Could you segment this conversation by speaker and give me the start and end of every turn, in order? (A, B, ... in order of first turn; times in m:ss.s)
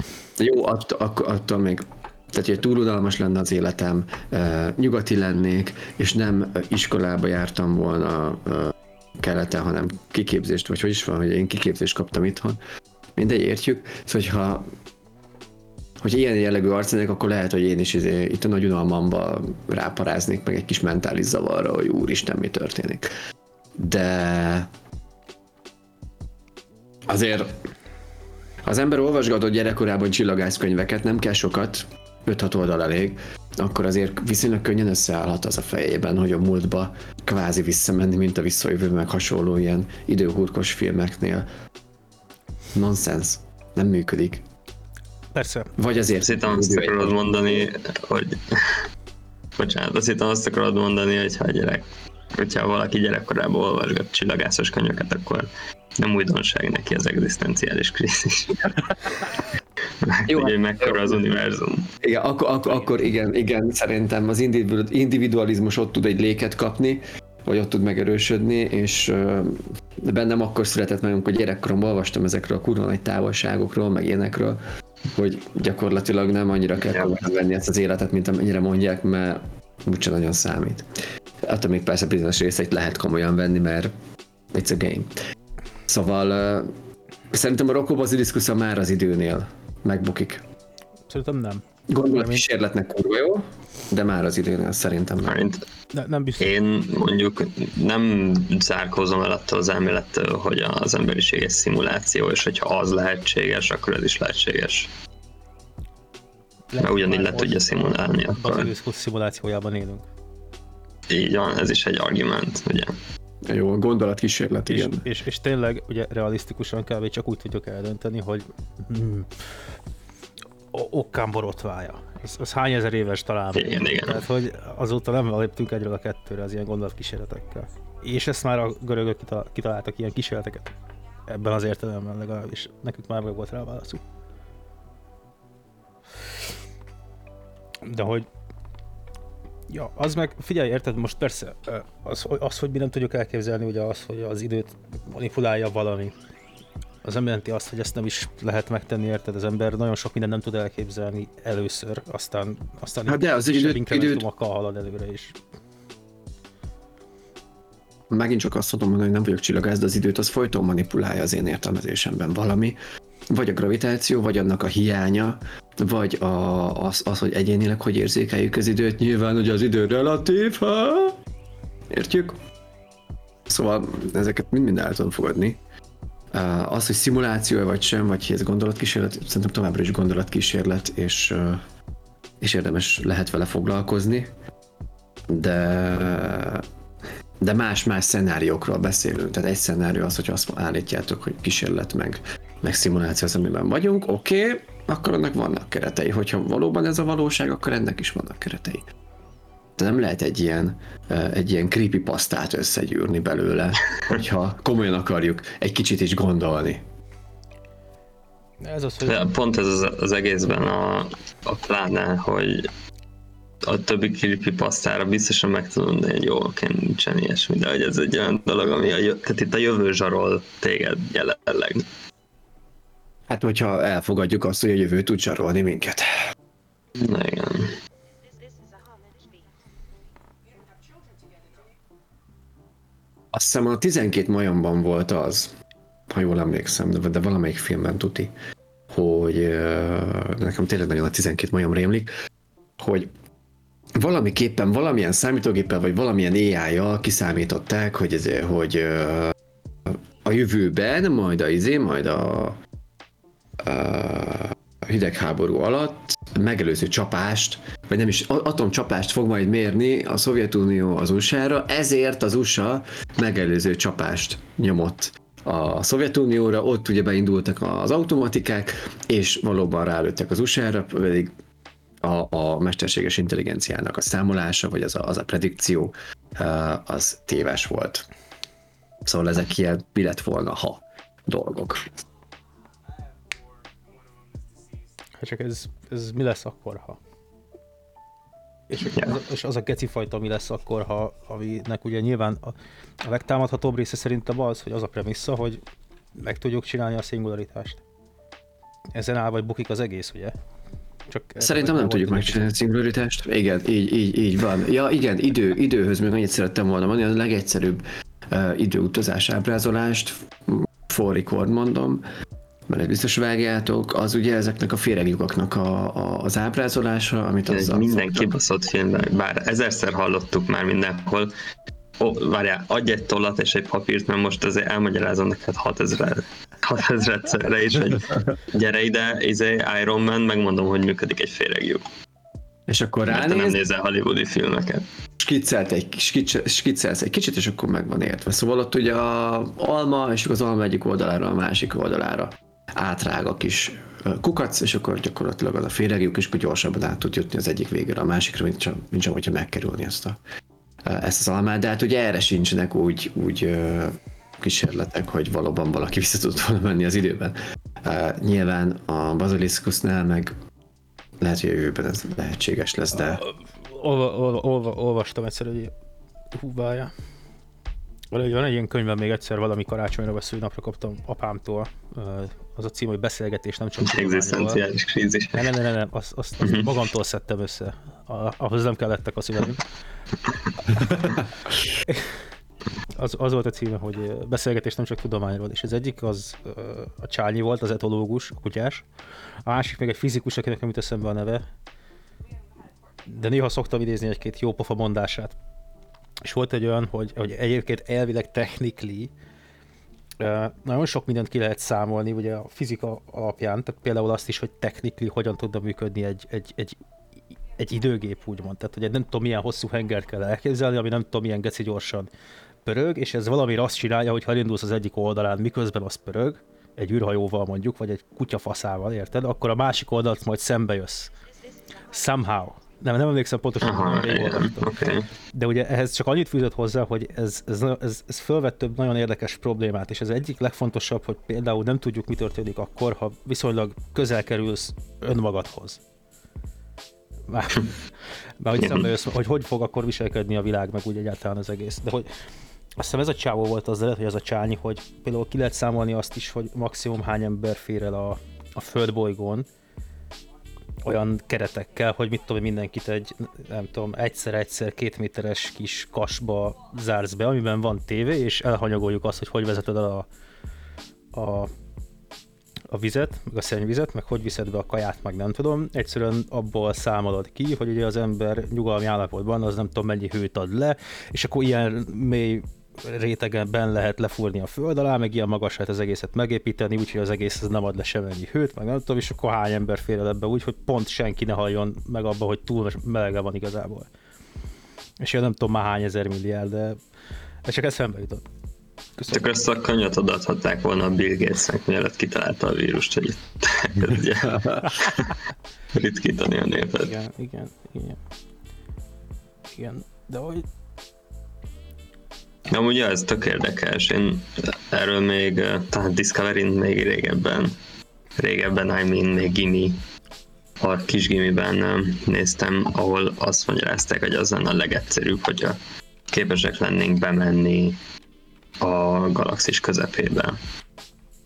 0:00.4-0:12.6 A
0:13.2-0:14.7 A
0:16.0-0:23.1 A
0:23.8-0:24.7 A
0:27.1-0:27.6 A
0:28.6-0:41.5 A
0:42.7-0:44.4 A
0:45.3-0:45.7 B
0:45.8-0:47.7 A
0:46.2-0:48.9 C
0:49.6-0:58.8 C
1:00.0-1:01.9 C
1:00.3-1:01.3 A
1:02.0-1:14.6 A
1:15.1-1:20.9 A
1:16.9-1:17.2 C
1:21.4-1:23.9 A
1:24.5-1:25.1 A
1:25.9-1:26.7 A
1:27.3-1:30.4 A
1:31.1-1:32.5 B
1:31.9-1:35.5 A
1:35.3-1:35.6 C
1:35.9-1:36.5 B
1:36.4-1:44.9 C
1:46.7-1:50.0 B
1:46.8-1:48.7 C
1:51.1-1:53.0 C
1:53.5-1:55.1 A
1:54.7-1:59.3 B
2:00.7-2:10.7 B
2:03.6-2:04.2 C
2:11.3-2:14.0 B
2:17.8-2:18.3 B
2:19.7-2:26.2 B
2:27.0-2:35.4 B
2:33.1-2:34.2 A
2:38.1-2:42.8 A
2:43.3-2:51.2 A
2:51.9-2:52.4 A
2:53.5-2:55.6 A
2:56.3-3:01.6 A
3:02.4-3:04.3 A
3:05.3-3:06.7 A
3:07.4-3:18.9 A
3:19.8-3:26.8 A
3:28.6-3:29.3 B
3:29.1-3:32.7 C
3:33.6-3:41.9 C
3:43.3-3:46.1 A
3:47.0-3:47.8 C
3:53.3-3:55.5 A
3:56.1-3:58.3 A
3:58.9-4:02.1 A
4:02.8-4:03.1 A
4:04.0-4:09.4 A
4:09.9-4:12.6 A
4:13.6-4:31.3 A
4:32.0-4:38.1 A
4:39.1-4:42.0 A
4:45.2-4:47.0 B
4:48.7-4:55.6 B
4:56.2-4:57.8 B
4:59.0-5:00.4 B
5:01.1-5:02.5 B
5:01.4-5:12.0 A
5:12.7-5:18.3 A
5:17.5-5:21.3 C
5:22.0-5:31.8 C
5:32.7-5:33.6 A
5:33.1-5:34.8 C
5:35.2-5:50.2 A
5:50.8-6:00.4 A
6:01.2-6:03.2 A
6:03.0-6:05.7 B
6:06.3-6:06.9 B
6:08.1-6:14.6 B
6:13.8-6:15.5 C
6:15.3-6:19.6 B
6:16.4-6:16.7 C
6:21.0-6:22.2 B
6:23.0-6:28.8 B
6:29.5-6:31.5 B
6:33.1-6:35.4 B
6:36.2-6:39.1 B
6:40.2-6:46.8 B
6:47.6-6:52.1 B
6:52.6-7:01.1 B
7:01.9-7:15.8 B
7:03.6-7:05.1 C
7:17.3-7:17.7 B
7:18.4-7:22.1 B
7:18.6-7:18.9 C
7:22.8-7:29.5 B
7:30.8-7:40.1 B
7:41.1-7:41.5 B
7:42.7-8:03.9 B
8:05.0-8:06.8 B
8:07.5-8:08.2 B
8:09.0-8:09.3 B
8:09.1-8:15.2 C
8:15.7-8:16.9 C
8:16.7-8:18.0 B
8:19.6-8:20.5 B
8:22.5-8:27.6 C
8:28.2-8:29.8 C
8:30.6-8:35.6 C
8:36.1-8:37.8 C
8:38.6-8:40.4 C